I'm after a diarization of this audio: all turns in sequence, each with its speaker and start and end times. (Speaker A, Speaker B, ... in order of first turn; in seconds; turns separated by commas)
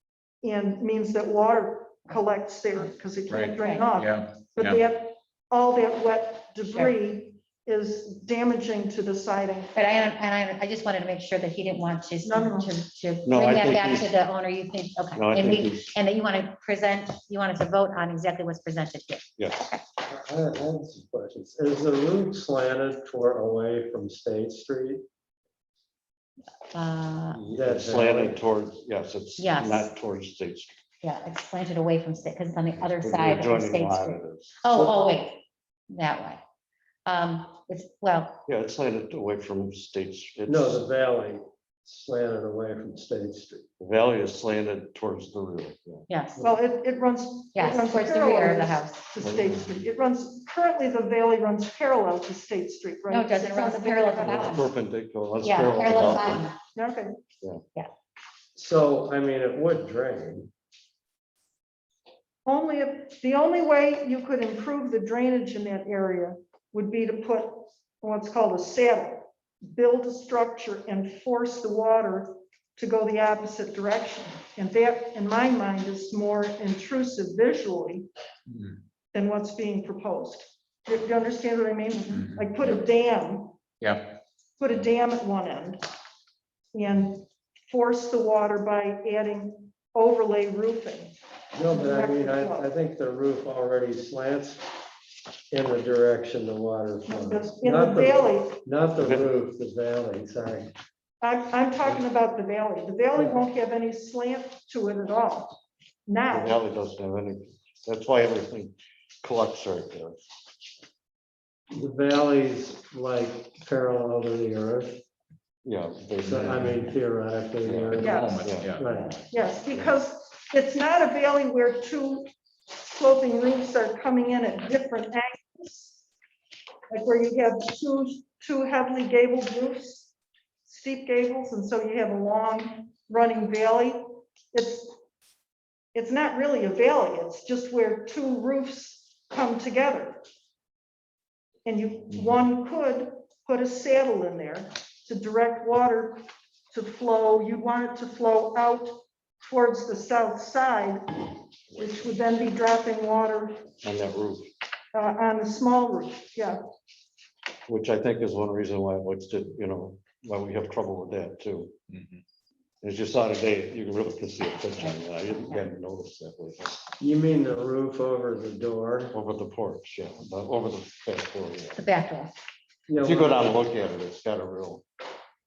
Speaker A: 0.4-9.7, Speaker B: 3.3-4.8, Speaker C: 3.6-3.9, Speaker C: 9.8-19.8, Speaker A: 12.2-12.7, Speaker D: 13.3-14.1, Speaker D: 15.2-15.9, Speaker D: 19.4-19.6, Speaker E: 20.1-25.0, Speaker C: 26.7-27.4, Speaker D: 27.3-30.7, Speaker E: 27.5-28.4, Speaker C: 29.4-29.9, Speaker C: 31.0-36.4, Speaker D: 32.9-34.6, Speaker C: 37.1-38.4, Speaker D: 38.5-40.8, Speaker E: 40.5-43.7, Speaker D: 43.8-46.1, Speaker C: 46.1-46.4, Speaker A: 46.4-54.6, Speaker C: 47.5-49.0, Speaker D: 49.2-49.6, Speaker C: 53.1-54.7, Speaker D: 54.2-56.4, Speaker C: 55.4-56.6, Speaker A: 56.8-57.1, Speaker E: 58.6-60.5, Speaker A: 62.5-78.1, Speaker A: 79.1-83.6, Speaker B: 82.1-82.6, Speaker B: 83.8-84.2, Speaker A: 84.6-85.8, Speaker A: 86.7-91.1, Speaker E: 91.5-94.6, Speaker A: 91.7-92.7, Speaker E: 95.5-100.7, Speaker A: 97.1-98.6, Speaker D: 99.0-99.3, Speaker A: 101.2-106.6, Speaker D: 106.3-110.2, Speaker E: 111.7-115.0, Speaker D: 115.6-116.9, Speaker E: 116.2-118.2, Speaker D: 117.6-118.8, Speaker B: 117.9-118.9, Speaker A: 118.0-118.4, Speaker E: 118.7-119.2, Speaker A: 119.3-126.0, Speaker A: 126.9-130.1, Speaker A: 130.7-135.0, Speaker A: 135.9-140.2, Speaker A: 141.7-153.6, Speaker D: 153.8-154.5, Speaker A: 154.9-156.6, Speaker D: 157.7-161.8, Speaker B: 161.9-162.2, Speaker D: 162.8-166.8, Speaker C: 164.8-165.6, Speaker E: 167.0-169.2, Speaker D: 169.1-171.8, Speaker C: 171.8-172.3, Speaker E: 172.9-173.4, Speaker D: 173.0-174.8